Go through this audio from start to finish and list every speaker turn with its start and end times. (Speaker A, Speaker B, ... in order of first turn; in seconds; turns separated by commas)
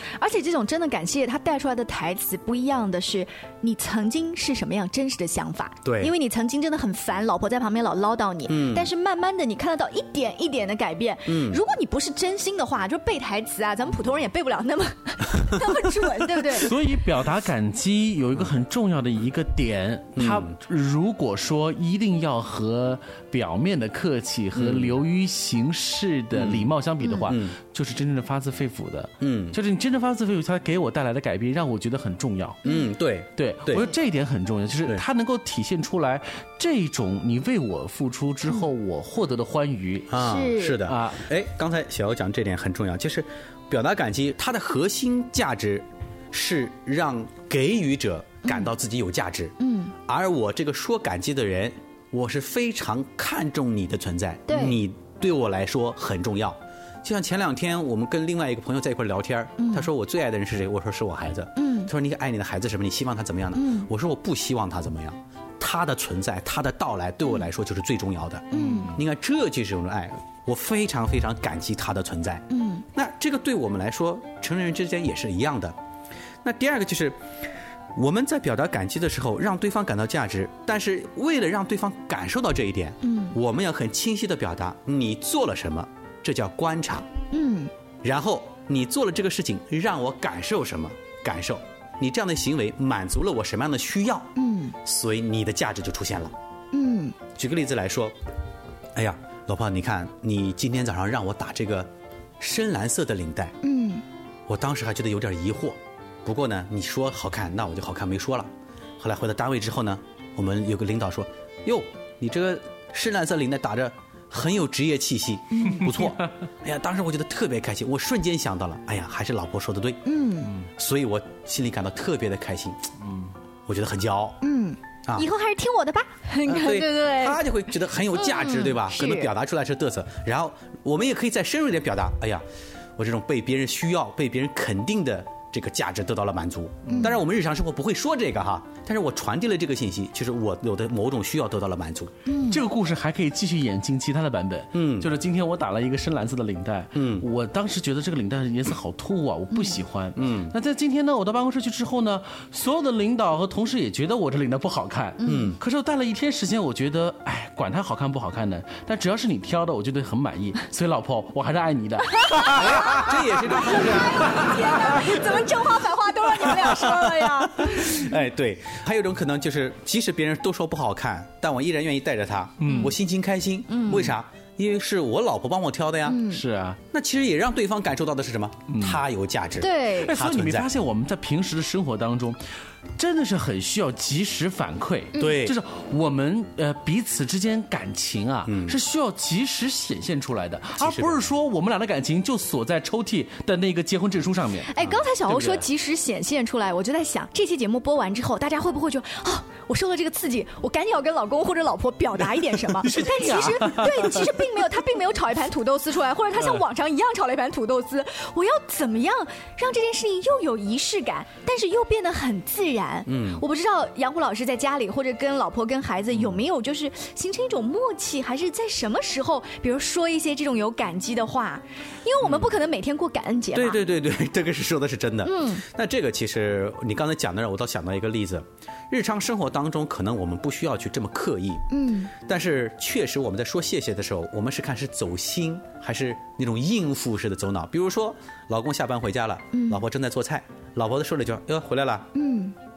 Speaker A: 0.2-16.7, Speaker B: 5.8-6.1, Speaker B: 8.5-8.9, Speaker B: 11.3-11.6, Speaker C: 16.5-32.6, Speaker B: 20.2-20.6, Speaker B: 24.5-25.0, Speaker B: 26.3-26.7, Speaker A: 27.0-27.3, Speaker B: 27.3-27.6, Speaker B: 29.2-29.6, Speaker A: 32.6-32.9, Speaker B: 32.6-33.9, Speaker C: 33.4-40.2, Speaker B: 40.1-75.8, Speaker A: 40.2-40.8, Speaker C: 40.9-41.2, Speaker A: 49.6-49.9, Speaker A: 54.5-54.8, Speaker A: 59.6-59.9, Speaker A: 61.6-61.9, Speaker A: 63.5-63.9, Speaker A: 68.5-68.9, Speaker C: 68.6-68.9, Speaker A: 72.5-72.8, Speaker B: 76.4-77.3, Speaker B: 77.9-87.1, Speaker A: 83.0-83.3, Speaker A: 87.3-87.7, Speaker B: 88.0-94.3, Speaker A: 94.4-94.8, Speaker B: 94.8-96.3, Speaker A: 96.7-97.2, Speaker B: 97.3-98.2, Speaker B: 99.0-103.5, Speaker A: 103.6-104.0, Speaker B: 104.5-120.0, Speaker A: 115.5-115.9, Speaker A: 120.0-120.5, Speaker B: 120.8-122.8, Speaker C: 123.0-123.3, Speaker B: 123.7-124.4, Speaker A: 124.4-127.4, Speaker B: 126.4-132.4, Speaker A: 128.2-129.3, Speaker B: 133.0-142.1, Speaker C: 136.9-137.1, Speaker A: 136.9-137.2, Speaker A: 142.3-142.6, Speaker C: 142.5-163.0, Speaker B: 144.7-145.1, Speaker B: 146.9-147.3, Speaker A: 149.5-149.8, Speaker B: 150.2-150.5, Speaker A: 155.2-155.5, Speaker B: 155.2-155.6, Speaker A: 162.2-168.2, Speaker B: 162.5-164.5, Speaker B: 166.5-176.2, Speaker C: 172.6-172.9, Speaker A: 172.7-172.9, Speaker A: 173.7-174.2, Speaker A: 176.1-176.4, Speaker C: 176.3-176.8, Speaker B: 176.9-180.7, Speaker C: 178.7-179.0, Speaker A: 179.6-180.1, Speaker C: 180.0-182.4, Speaker C: 183.0-195.7, Speaker A: 185.2-185.4, Speaker B: 185.2-185.6, Speaker B: 188.5-188.8, Speaker B: 190.8-191.2, Speaker A: 194.7-223.8, Speaker C: 202.8-204.3, Speaker B: 213.1-213.4, Speaker B: 222.2-222.5, Speaker B: 223.5-231.7, Speaker A: 225.2-225.6, Speaker A: 231.7-232.1, Speaker B: 232.2-242.1, Speaker A: 239.5-239.8, Speaker A: 242.2-242.6